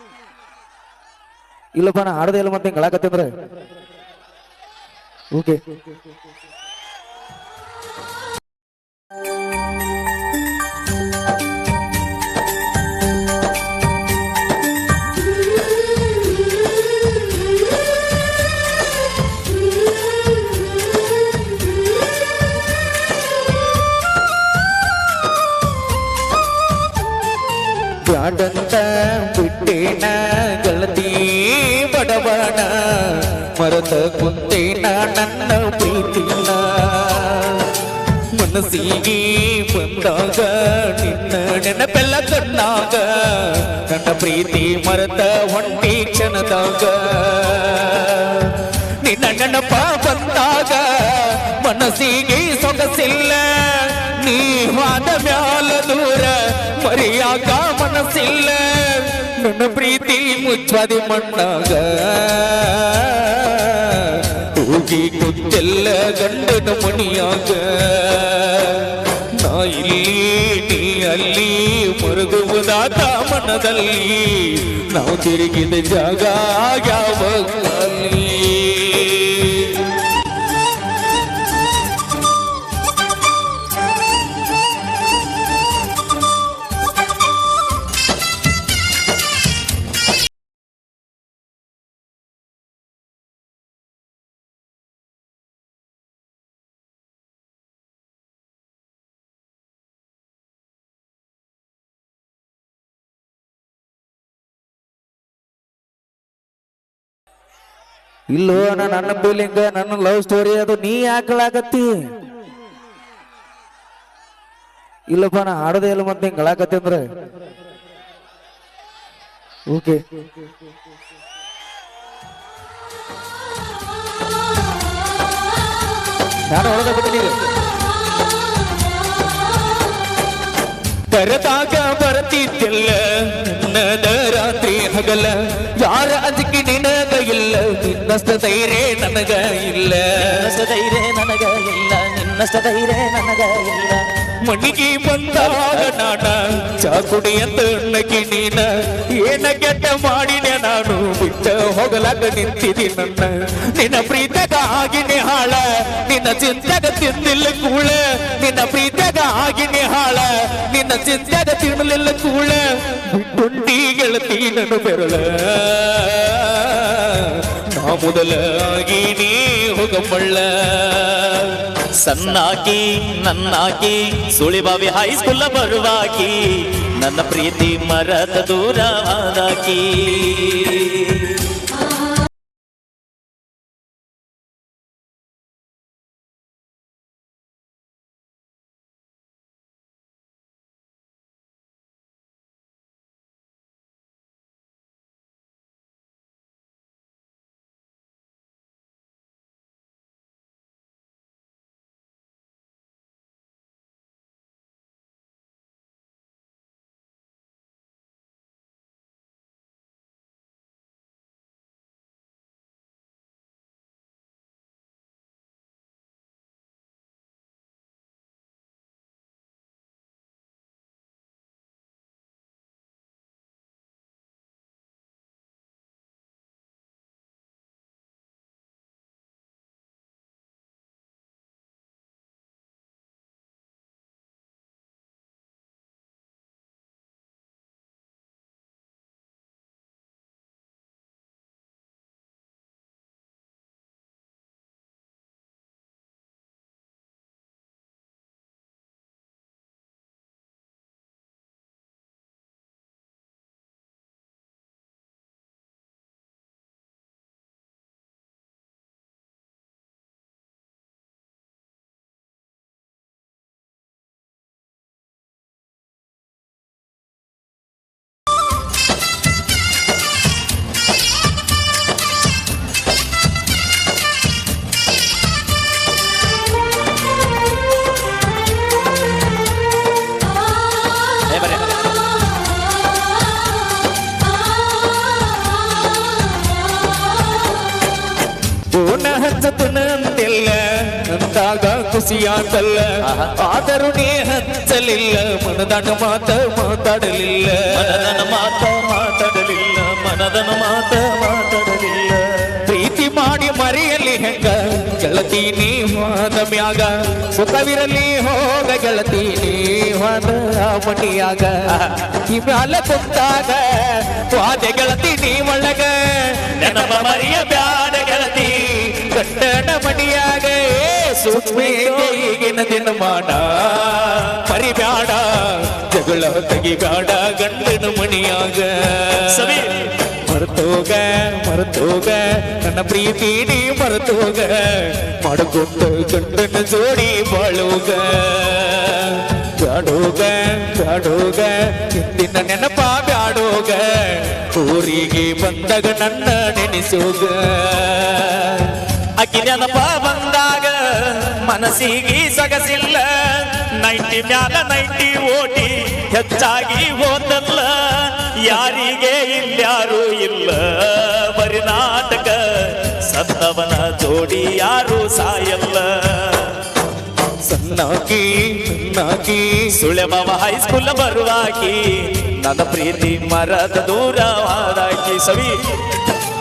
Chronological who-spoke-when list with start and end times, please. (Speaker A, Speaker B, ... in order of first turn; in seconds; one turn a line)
Speaker A: 1.7-3.3
Speaker A: 5.3-5.6
Speaker A: 28.0-37.7
Speaker A: 38.3-79.8
Speaker A: 108.3-112.1
Speaker A: 115.1-117.1
Speaker A: 119.7-120.0
Speaker A: 126.5-127.4
Speaker A: 131.1-140.2
Speaker B: 140.2-144.0
Speaker A: 144.5-171.6
Speaker B: 145.4-145.9
Speaker B: 172.0-181.4
Speaker B: 281.3-281.8
Speaker A: 288.7-298.0
Speaker B: 293.0-293.3
Speaker B: 297.7-302.6
Speaker A: 302.6-311.5
Speaker B: 311.7-312.0
Speaker A: 312.1-317.1
Speaker B: 316.6-318.7
Speaker A: 318.6-329.7
Speaker B: 321.4-322.0
Speaker B: 329.3-329.9
Speaker A: 330.2-348.8
Speaker B: 349.2-366.6
Speaker A: 367.4-369.7
Speaker B: 369.8-375.6